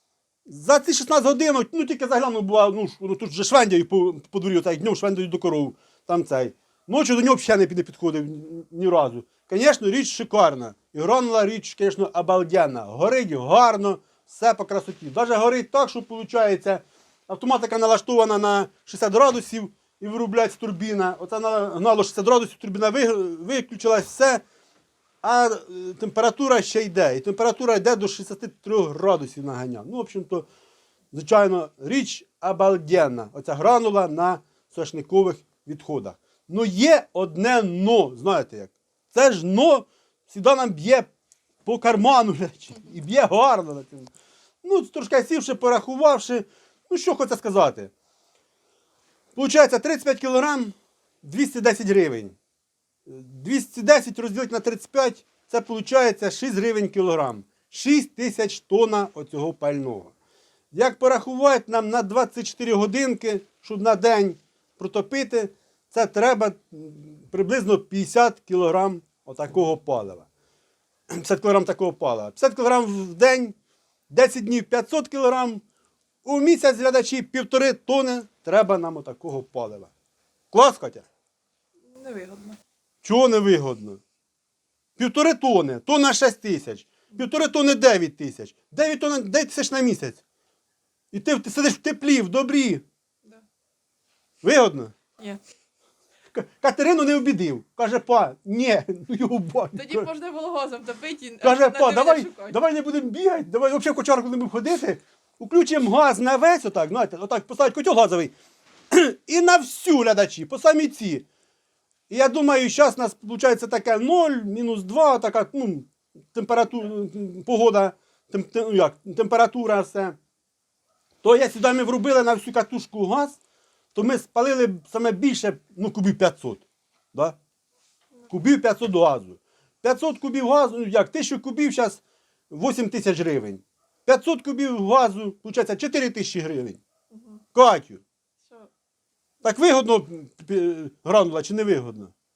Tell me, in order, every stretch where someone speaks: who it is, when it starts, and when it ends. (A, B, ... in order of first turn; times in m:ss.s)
0:00.5-0:24.4 A
0:25.2-0:30.5 A
0:31.1-0:41.1 A
0:41.6-0:44.1 A
0:44.6-0:47.9 A
0:49.4-0:52.4 A
0:53.1-1:00.1 A
1:00.7-1:10.3 A
1:11.1-1:13.6 A
1:14.1-1:15.6 A
1:16.2-1:19.9 A
1:20.5-1:21.0 A
1:21.9-1:22.6 B
1:23.0-1:24.0 A
1:25.0-1:30.2 A
1:31.1-1:32.8 A
1:34.4-1:34.9 A
1:36.3-1:40.1 A
1:39.7-1:42.6 B
1:41.4-1:48.3 A
1:48.9-1:51.3 A
1:52.1-2:00.2 A
2:01.2-2:03.4 A
2:03.9-2:07.4 A
2:08.3-2:16.8 A
2:17.1-2:17.4 B
2:17.5-2:18.0 A
2:19.4-2:22.1 A